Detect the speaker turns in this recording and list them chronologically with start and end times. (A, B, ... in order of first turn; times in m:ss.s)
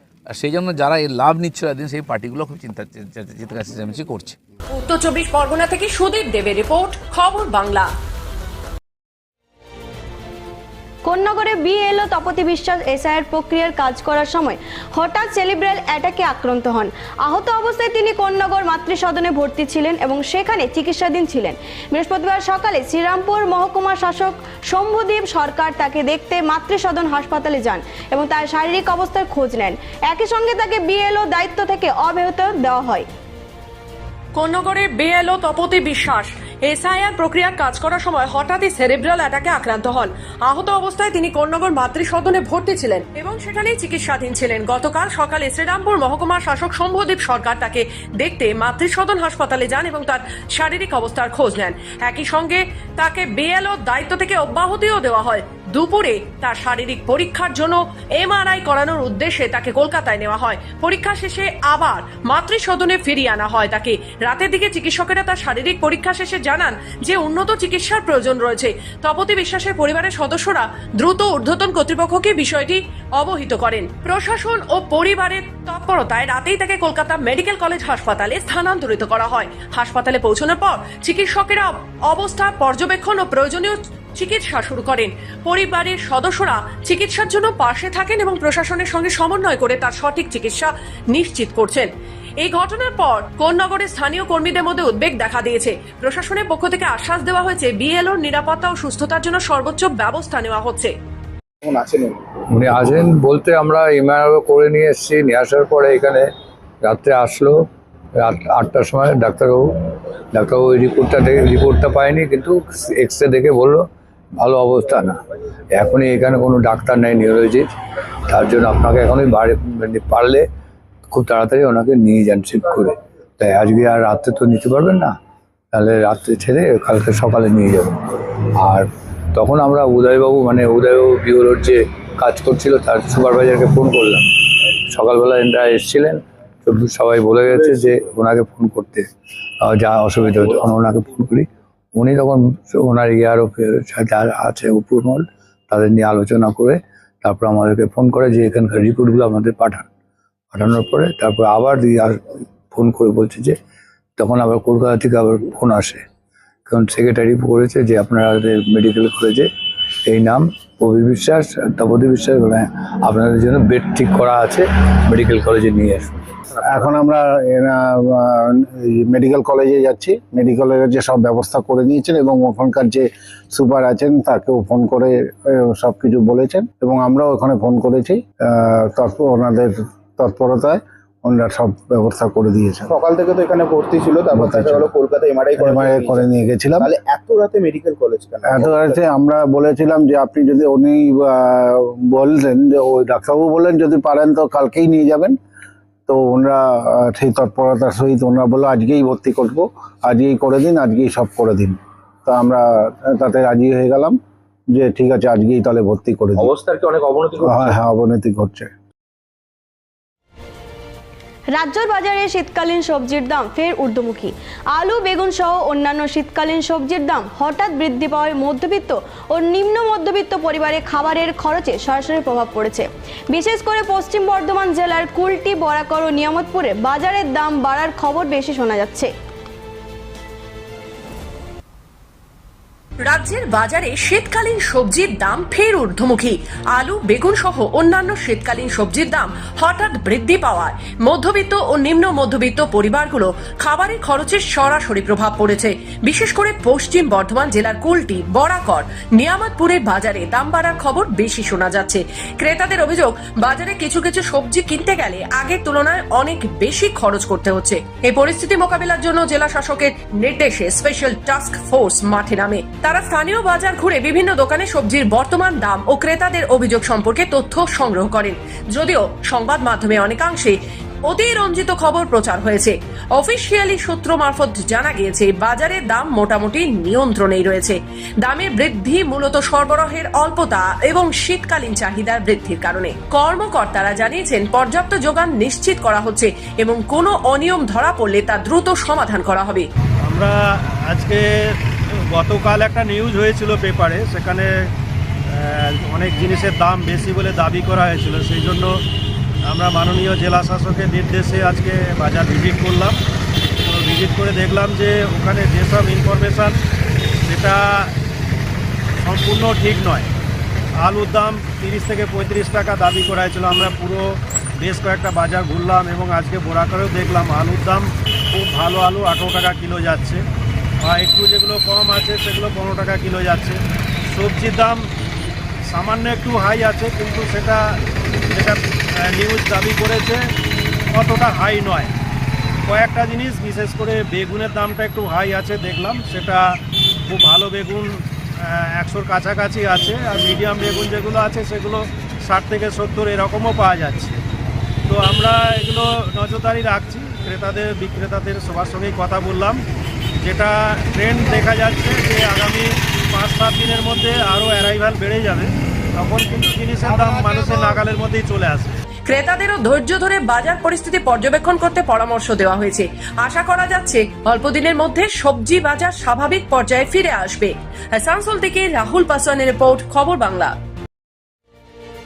0:00.3-0:04.4 A
0:04.7-0:07.9 B
0:11.0-0:33.1 C
0:34.3-1:31.9 B
1:32.4-1:40.9 B
1:41.6-1:42.1 D
1:42.5-1:46.3 E
1:46.8-1:47.6 E
1:48.2-1:53.8 E
1:54.4-1:55.2 E
1:55.7-1:57.6 E
1:58.3-2:00.4 E
2:01.1-2:05.1 E
2:05.7-2:14.2 E
2:14.9-2:19.0 E
2:19.6-2:29.9 E
2:30.5-2:32.2 E
2:32.7-2:33.5 E
2:34.2-2:36.0 E
2:36.7-2:39.5 E
2:40.1-2:46.2 E
2:46.7-3:02.9 F
3:02.9-3:06.3 D
3:04.3-3:04.9 F
3:05.6-3:06.9 F
3:06.8-3:09.0 D
3:08.4-3:15.4 F
3:16.1-3:24.2 F
3:24.7-3:26.5 F
3:27.4-3:28.7 F
3:31.6-3:49.1 C
3:53.0-4:30.5 B
4:31.0-4:49.7 B
4:50.1-4:50.3 G
4:50.9-4:51.2 G
4:52.1-4:54.5 G
4:55.4-4:58.7 G
4:59.5-5:03.0 G
5:03.6-5:06.6 G
5:07.3-5:07.9 G
5:09.0-5:10.1 G
5:10.8-5:14.0 G
5:14.6-5:20.2 G
5:20.8-5:23.6 G
5:24.1-5:24.8 G
5:25.7-5:27.6 G
5:28.3-5:30.2 G
5:30.9-5:31.9 G
5:32.7-5:36.4 G
5:37.1-5:37.9 G
5:38.8-5:44.2 G
5:44.9-5:49.6 G
5:50.2-5:58.7 G
5:59.1-6:10.5 B